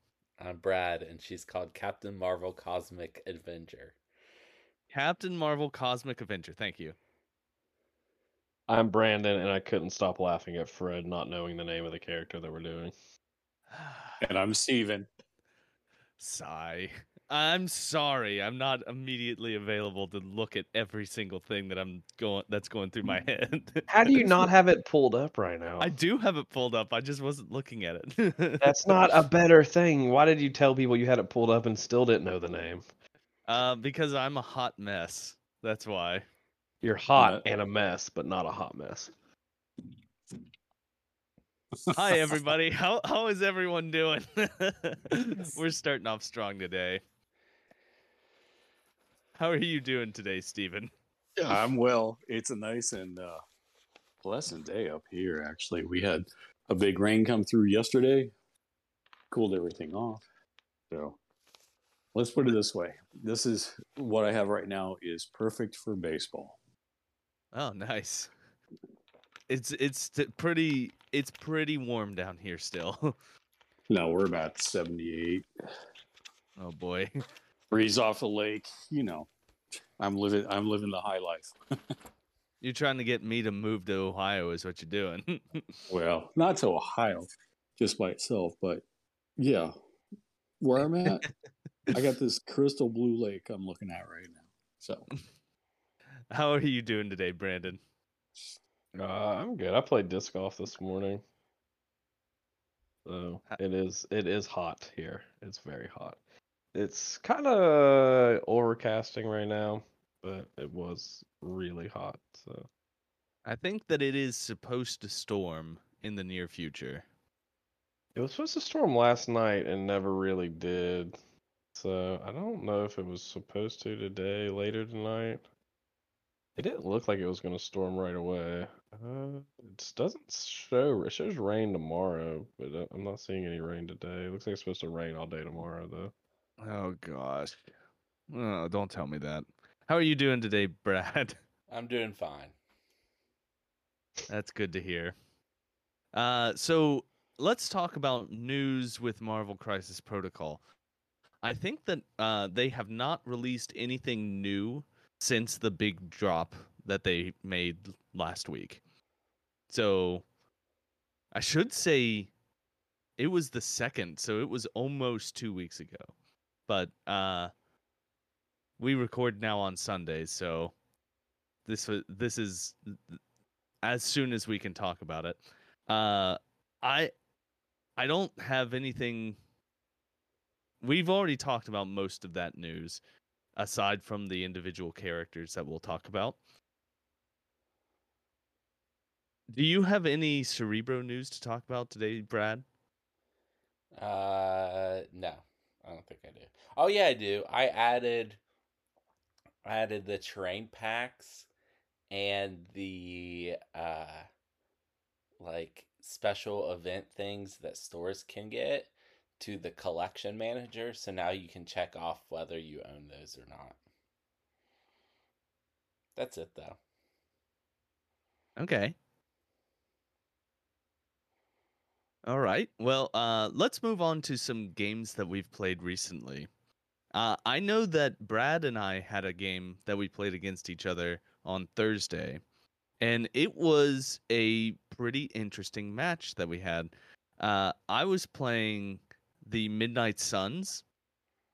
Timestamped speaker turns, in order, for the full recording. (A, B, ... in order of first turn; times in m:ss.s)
0:00.4-0:03.9 A
0:04.9-0:07.0 B
0:08.7-0:12.9 C
0:13.7-0:14.2 B
0:14.2-0:15.1 D
0:16.2-0:24.5 B
0:23.9-0:25.9 C
0:25.8-0:29.1 B
0:28.6-0:32.8 C
0:33.5-0:36.2 B
0:36.8-0:39.1 C
0:37.2-0:37.4 D
0:41.9-0:47.0 B
0:49.4-0:50.9 B
0:51.4-0:53.4 D
0:54.2-0:58.3 D
0:59.3-1:00.2 D
1:00.9-1:01.2 D
1:02.1-1:06.6 D
1:07.5-1:08.3 B
1:09.5-1:13.1 B
1:13.9-1:15.5 D
1:16.6-1:17.1 B
1:17.7-1:19.3 D
1:20.0-1:21.6 D
1:22.6-1:25.8 B
1:25.9-1:28.8 D
1:29.4-1:29.7 D
1:30.6-1:31.3 D
1:31.9-1:35.1 D
1:36.3-1:37.8 B
1:38.9-1:41.2 C
1:43.0-1:46.2 C
1:46.7-1:52.6 C
1:53.4-1:57.0 B
1:58.2-2:01.1 C
2:01.8-2:05.4 C
2:06.6-2:16.1 C
2:16.6-2:17.7 B
2:18.3-2:21.4 B
2:21.7-2:22.5 A
2:24.3-2:25.1 B
2:26.1-2:30.6 B
2:31.4-2:38.8 B
2:39.7-2:40.2 B
2:41.3-2:42.3 B
2:43.2-2:46.1 B
2:46.7-2:47.5 B
2:48.8-2:50.7 B
2:51.6-2:53.2 B
2:53.8-2:57.1 B
2:58.0-2:59.4 B
3:00.8-3:03.0 B
3:03.6-3:06.4 B
3:09.5-3:12.6 B
3:14.0-3:18.4 A
3:19.6-3:21.5 A
3:22.1-3:24.3 A
3:25.4-3:33.8 A
3:36.2-3:36.8 A
3:38.6-3:39.0 B
3:42.2-3:46.5 B
3:47.1-3:52.4 B
3:53.0-4:00.8 B